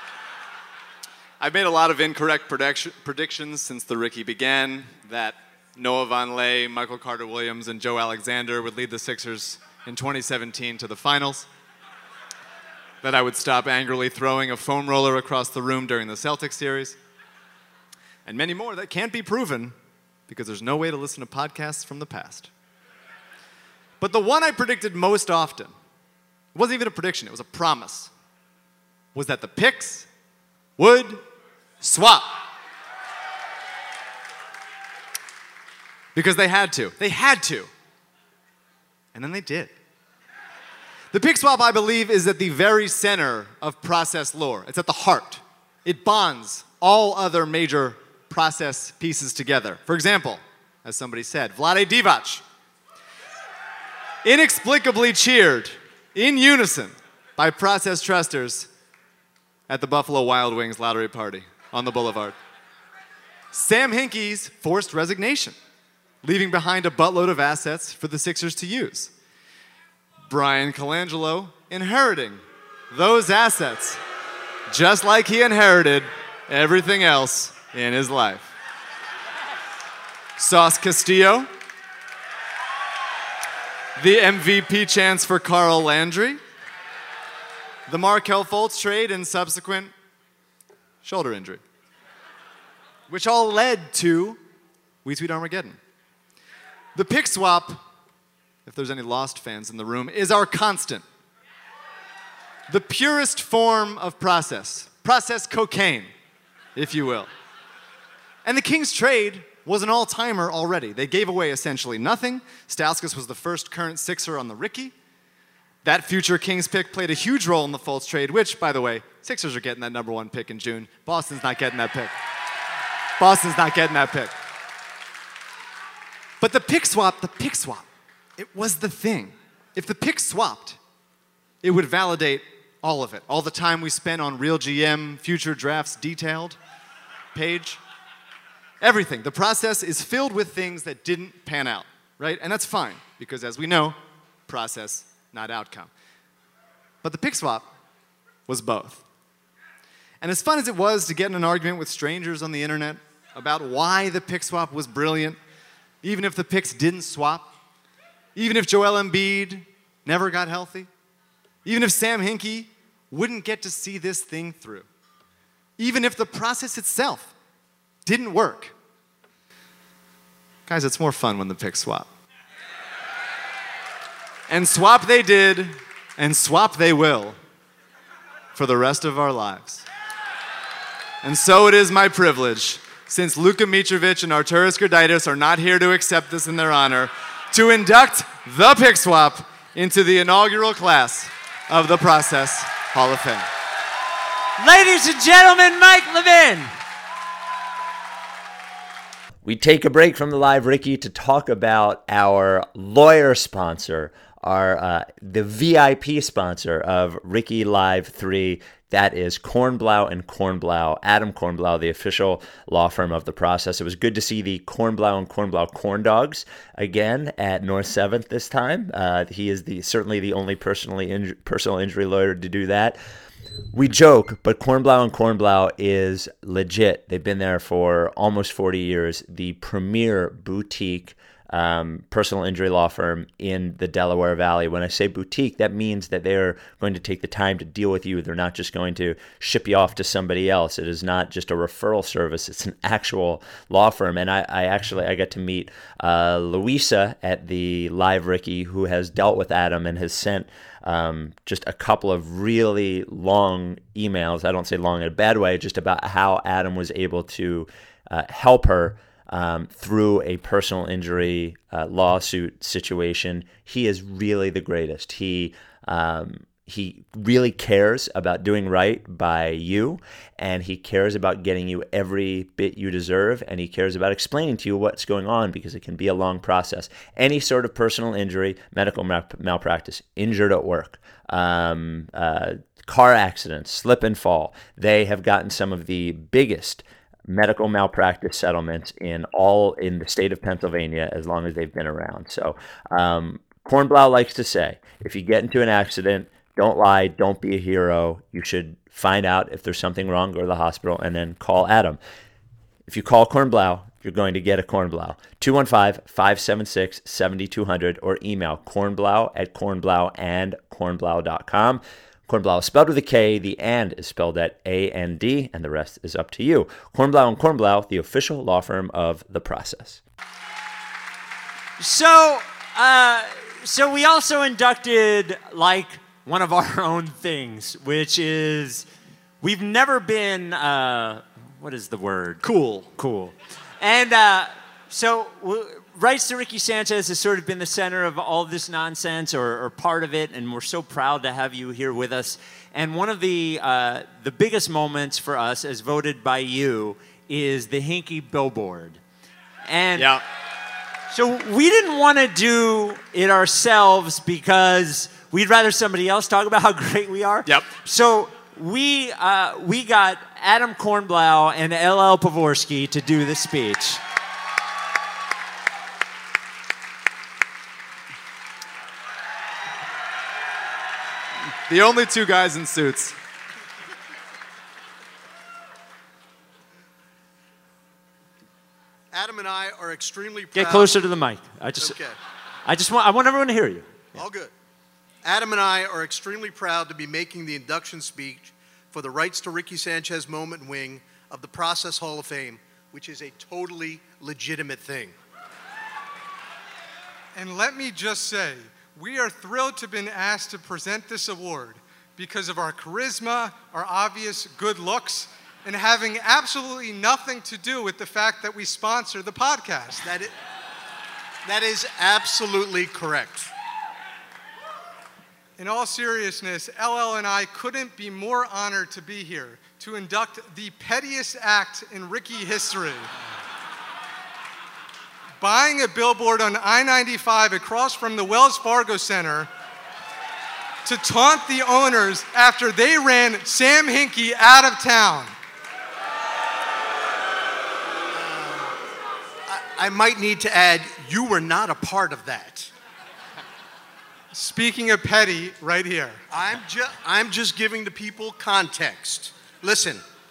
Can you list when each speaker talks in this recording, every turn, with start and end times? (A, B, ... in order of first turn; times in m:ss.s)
0:01.4-0:11.5 A
0:13.0-0:17.0 A
0:18.3-0:19.7 A
0:20.3-0:22.5 A
0:24.0-0:25.7 A
0:26.6-0:28.1 A
0:29.1-0:30.1 A
0:30.8-0:31.2 A
0:31.8-0:32.3 A
0:36.1-0:37.7 A
0:39.1-0:39.7 A
0:41.1-0:52.4 A
0:54.2-0:58.7 A
0:59.7-1:02.4 A
1:03.5-1:05.6 A
1:06.2-1:09.1 A
1:10.3-1:14.0 A
1:14.7-1:18.5 A
1:20.4-1:21.5 A
1:24.0-1:26.4 A
1:27.9-1:29.9 A
1:31.0-1:31.6 A
1:33.1-1:34.4 A
1:35.0-1:35.8 A
1:36.9-1:37.8 A
1:38.6-1:41.0 A
1:42.7-1:46.1 A
1:46.8-1:47.3 A
1:48.4-1:54.9 A
1:55.8-2:02.1 A
2:03.2-2:04.3 A
2:06.4-2:07.8 A
2:08.4-2:10.8 A
2:11.6-2:16.6 A
2:17.3-2:17.8 A
2:18.8-2:25.9 A
2:27.0-2:27.7 A
2:28.5-2:29.0 A
2:30.2-2:35.4 A
2:36.0-2:37.5 A
2:38.4-2:40.9 A
2:41.6-2:44.9 A
2:45.8-2:47.3 A
2:48.0-2:48.7 A
2:50.7-2:52.1 A
2:54.5-2:57.4 A
2:58.6-2:59.8 A
3:01.2-3:13.5 A
3:14.6-3:16.7 B
3:19.4-3:43.0 C
3:43.7-5:02.0 C
5:02.9-5:20.0 C
5:21.8-5:28.9 B
5:29.4-5:32.4 B
5:32.4-5:32.9 A
5:33.0-5:49.0 B
5:49.7-5:50.1 B
5:50.0-5:50.2 A
5:51.1-6:04.0 B
6:11.7-6:13.2 A
6:19.1-6:21.0 D
6:20.5-6:22.0 B
6:21.8-6:22.2 D
6:22.6-6:24.1 B
6:24.1-6:24.5 D
6:25.2-6:35.1 D
6:37.3-6:50.0 E
6:50.0-6:50.3 D
6:51.4-6:53.5 D
6:55.6-7:03.1 E
7:05.4-7:09.5 E
7:10.8-7:15.4 E
7:18.1-7:18.8 D
7:19.4-7:22.7 D
7:24.3-7:26.2 E
7:26.3-7:30.0 D